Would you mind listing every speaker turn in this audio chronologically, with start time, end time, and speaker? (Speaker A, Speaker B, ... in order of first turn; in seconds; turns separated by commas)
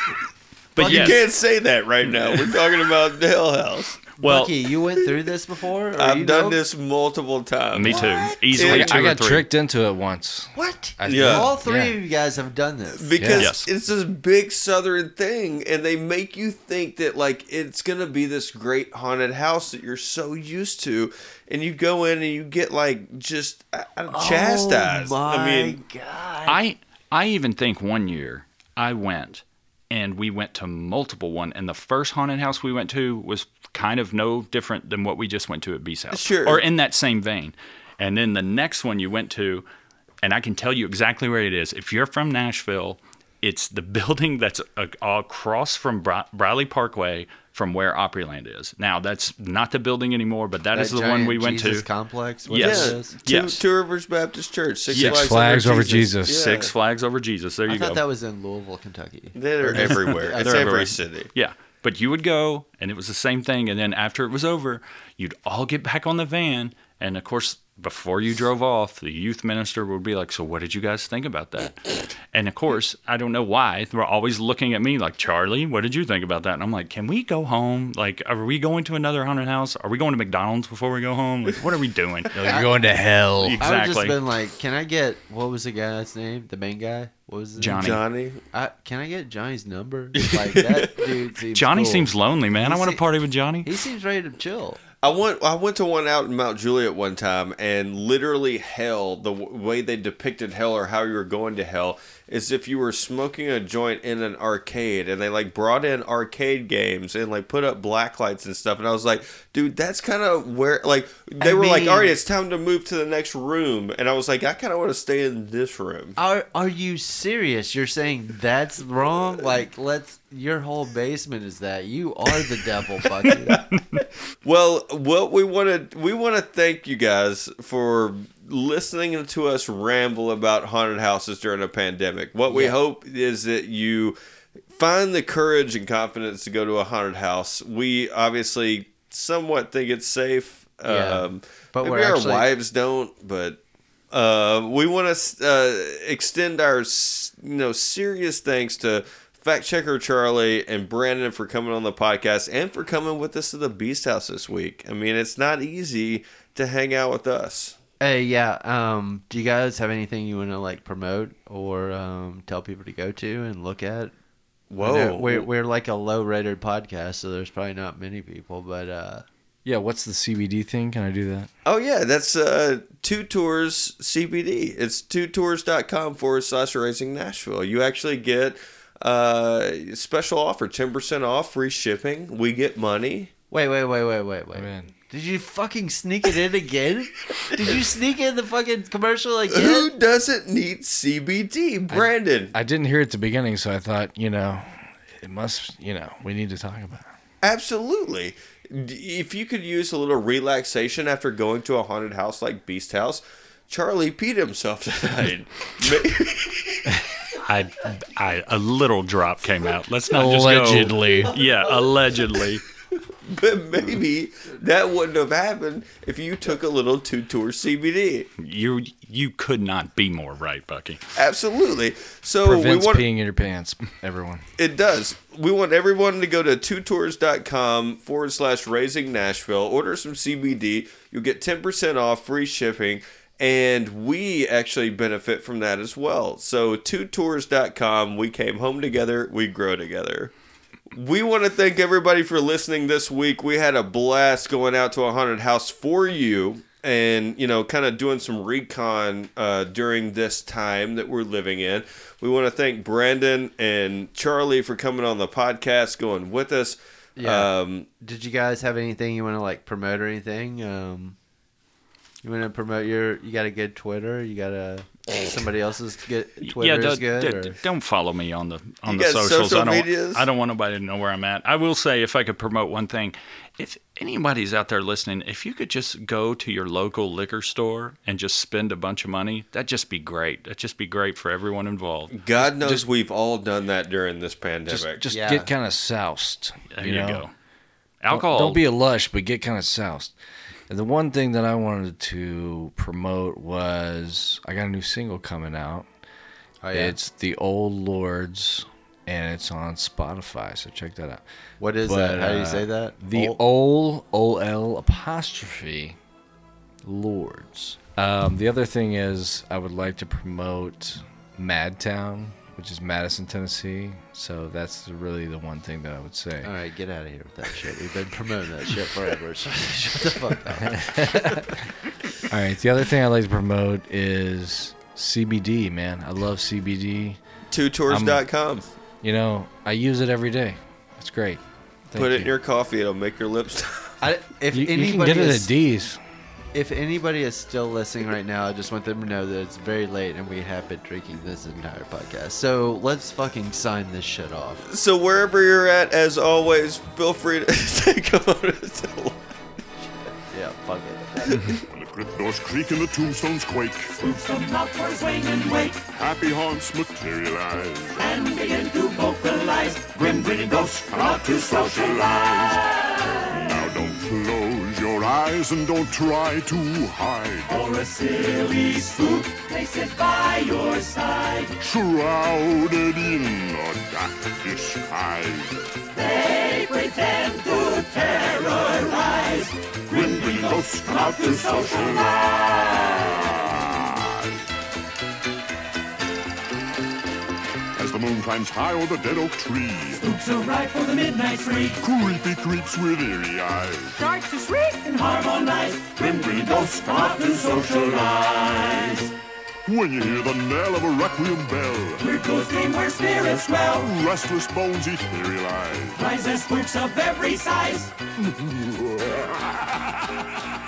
Speaker A: 0.8-1.3, Speaker B: 0.8-4.0, Speaker A: 4.2-4.5, Speaker C: 4.2-6.6, Speaker B: 6.0-8.9, Speaker A: 7.7-9.5, Speaker C: 7.9-8.4, Speaker D: 8.6-11.9, Speaker C: 10.6-13.3, Speaker B: 11.1-11.5, Speaker B: 13.0-25.8, Speaker D: 13.2-13.5, Speaker A: 13.4-13.7, Speaker C: 24.1-26.6, Speaker A: 26.5-39.6, Speaker B: 36.1-36.6, Speaker A: 40.2-51.9, Speaker C: 50.7-53.1, Speaker A: 52.5-53.6, Speaker B: 52.6-56.7, Speaker A: 54.9-55.5, Speaker D: 54.9-56.5, Speaker A: 56.1-58.0, Speaker C: 57.7-60.1, Speaker B: 59.4-61.3, Speaker A: 59.8-82.6, Speaker D: 82.3-83.7, Speaker A: 83.4-84.2, Speaker C: 83.6-87.9, Speaker A: 87.6-88.0, Speaker B: 87.8-88.4, Speaker C: 88.5-92.1, Speaker B: 90.4-90.9, Speaker A: 91.5-93.7, Speaker C: 92.6-93.0, Speaker C: 93.6-94.8, Speaker B: 95.0-116.2, Speaker C: 111.4-112.1, Speaker C: 116.2-123.6, Speaker B: 123.5-134.2, Speaker C: 132.5-132.8, Speaker B: 134.7-143.6, Speaker C: 140.8-142.5, Speaker B: 144.1-157.8, Speaker C: 158.0-164.1, Speaker B: 164.7-165.5, Speaker C: 164.8-169.3, Speaker D: 169.7-171.5, Speaker B: 171.7-183.3, Speaker C: 183.5-189.9, Speaker D: 184.5-184.9, Speaker B: 189.5-192.5, Speaker D: 191.9-197.1, Speaker B: 197.4-206.9, Speaker A: 207.4-212.6, Speaker D: 210.1-211.4, Speaker B: 213.0-218.3, Speaker A: 218.4-221.1, Speaker B: 221.2-223.0, Speaker D: 222.4-224.5, Speaker B: 224.6-240.3, Speaker B: 240.9-257.9, Speaker C: 257.2-261.2, Speaker C: 262.2-267.6, Speaker A: 266.4-282.1, Speaker B: 268.9-270.3, Speaker B: 282.1-285.0, Speaker D: 282.4-282.9, Speaker D: 284.7-287.3, Speaker C: 285.1-285.5, Speaker A: 286.7-287.3, Speaker A: 288.0-288.6, Speaker D: 288.1-290.1, Speaker D: 290.7-295.9, Speaker C: 296.6-297.0, Speaker D: 296.7-301.2, Speaker C: 301.6-303.4, Speaker D: 301.8-306.0, Speaker D: 306.8-316.5, Speaker C: 316.4-321.6, Speaker D: 320.6-321.5, Speaker D: 322.3-327.2, Speaker B: 327.5-328.7, Speaker D: 327.9-328.2, Speaker D: 329.0-332.3, Speaker B: 332.0-334.0, Speaker C: 334.0-335.5, Speaker D: 334.5-336.0, Speaker C: 336.5-344.6, Speaker B: 344.7-349.2, Speaker C: 350.3-351.3, Speaker B: 351.3-351.6, Speaker E: 351.7-354.2, Speaker F: 354.0-355.8, Speaker E: 355.9-358.1, Speaker F: 358.0-363.5, Speaker E: 360.9-362.8, Speaker E: 363.3-367.6, Speaker F: 367.5-371.6, Speaker E: 371.6-375.8, Speaker F: 375.9-383.1, Speaker E: 379.9-384.4, Speaker E: 387.8-390.1, Speaker F: 390.0-391.8, Speaker E: 391.8-394.0, Speaker F: 394.0-399.1, Speaker E: 396.0-398.0, Speaker E: 399.7-402.1, Speaker F: 402.0-403.9, Speaker E: 403.7-406.1, Speaker F: 406.0-407.9, Speaker E: 408.2-410.2